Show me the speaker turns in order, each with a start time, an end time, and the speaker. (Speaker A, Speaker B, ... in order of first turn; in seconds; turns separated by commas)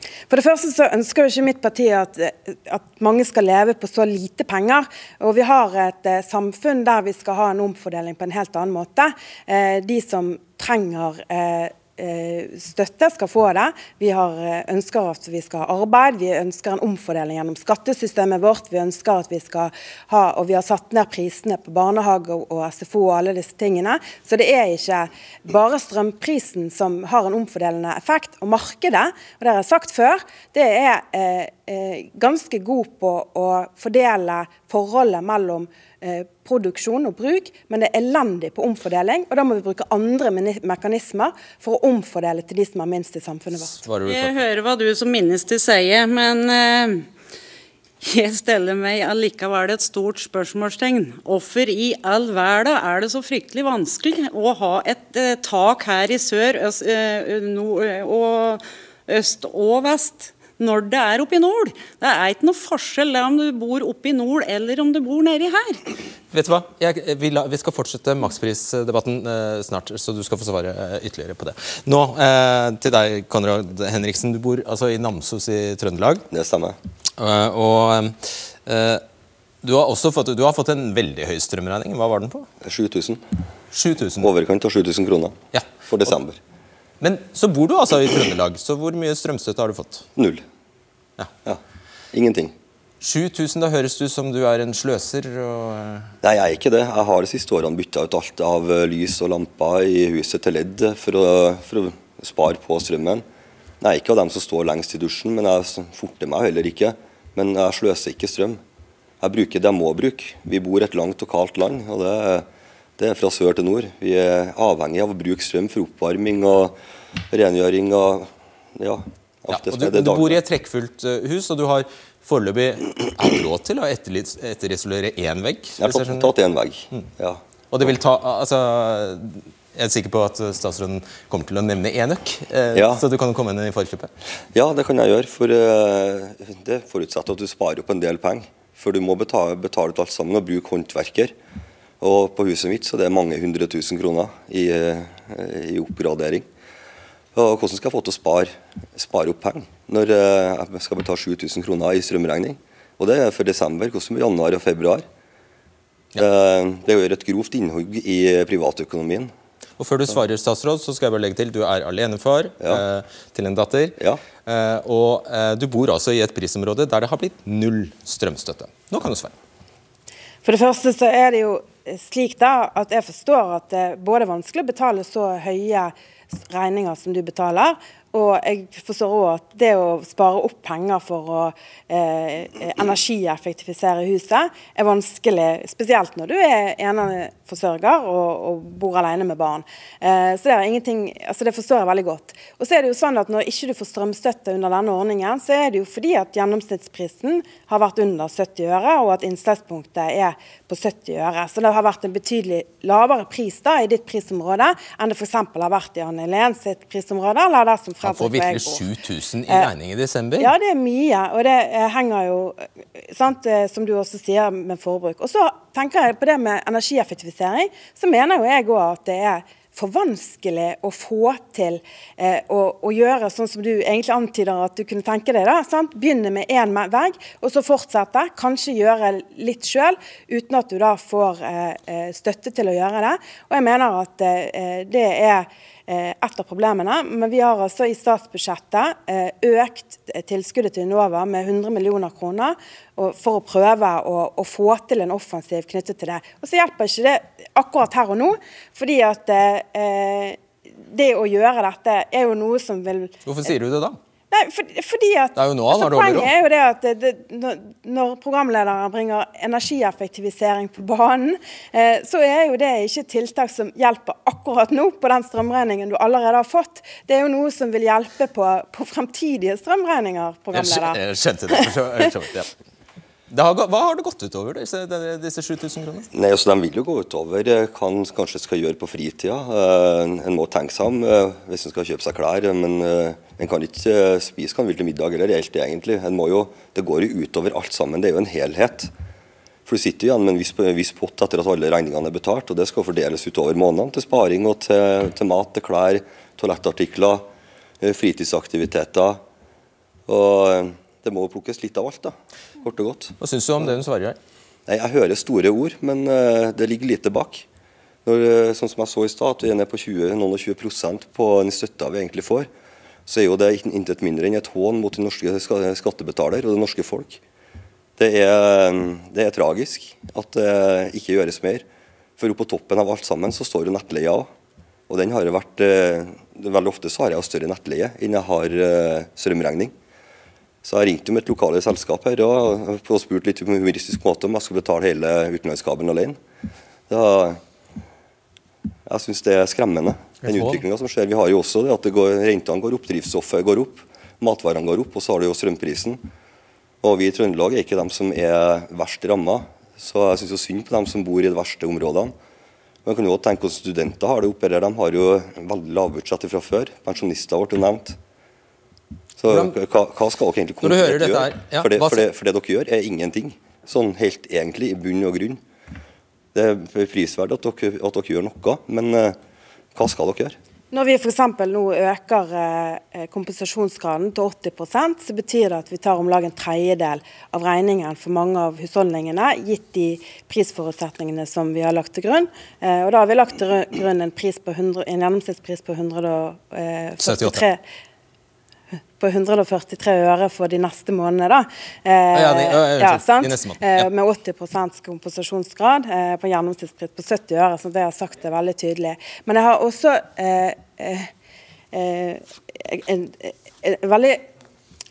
Speaker A: 0.3-43.8, Speaker B: 43.7-44.4, Speaker C: 44.1-47.1, Speaker C: 48.0-65.8, Speaker B: 66.3-76.2, Speaker D: 76.3-76.8, Speaker B: 77.2-79.0, Speaker B: 79.6-82.5, Speaker D: 82.6-83.2, Speaker B: 83.7-84.3, Speaker D: 84.2-86.4, Speaker B: 85.5-86.1, Speaker B: 87.0-90.1, Speaker D: 90.2-90.4, Speaker D: 92.1-92.5, Speaker B: 93.0-96.1, Speaker D: 96.2-103.2, Speaker D: 103.8-108.6, Speaker D: 109.2-112.5, Speaker D: 113.0-116.8, Speaker D: 117.3-120.4, Speaker B: 119.5-126.3, Speaker D: 125.8-127.4, Speaker B: 127.7-134.1, Speaker D: 132.7-133.0, Speaker D: 134.5-141.3, Speaker D: 142.0-146.5, Speaker D: 147.3-155.1, Speaker D: 156.2-159.3, Speaker B: 159.8-169.3, Speaker A: 170.4-208.9, Speaker B: 208.0-210.5, Speaker A: 210.4-250.4, Speaker A: 250.9-253.1, Speaker B: 253.3-254.0, Speaker A: 254.3-271.7, Speaker B: 255.4-256.3, Speaker B: 270.5-272.5, Speaker B: 273.3-276.1, Speaker D: 276.1-288.9, Speaker D: 289.7-297.3, Speaker D: 297.8-299.2, Speaker D: 300.1-303.2, Speaker B: 303.2-304.2, Speaker D: 304.7-307.5, Speaker D: 308.1-312.5, Speaker D: 313.1-317.2, Speaker D: 318.0-321.6, Speaker D: 322.2-324.3, Speaker D: 324.9-329.7, Speaker D: 330.6-336.2, Speaker D: 336.9-337.4, Speaker D: 338.9-346.0, Speaker B: 340.2-340.6, Speaker D: 346.8-352.1, Speaker D: 352.9-358.0, Speaker D: 359.2-365.4, Speaker B: 359.3-359.5, Speaker B: 360.6-362.1, Speaker D: 366.3-369.2, Speaker D: 369.8-370.4, Speaker A: 370.7-387.6, Speaker B: 387.0-387.4, Speaker A: 389.0-401.1, Speaker B: 392.1-393.9, Speaker A: 401.7-404.3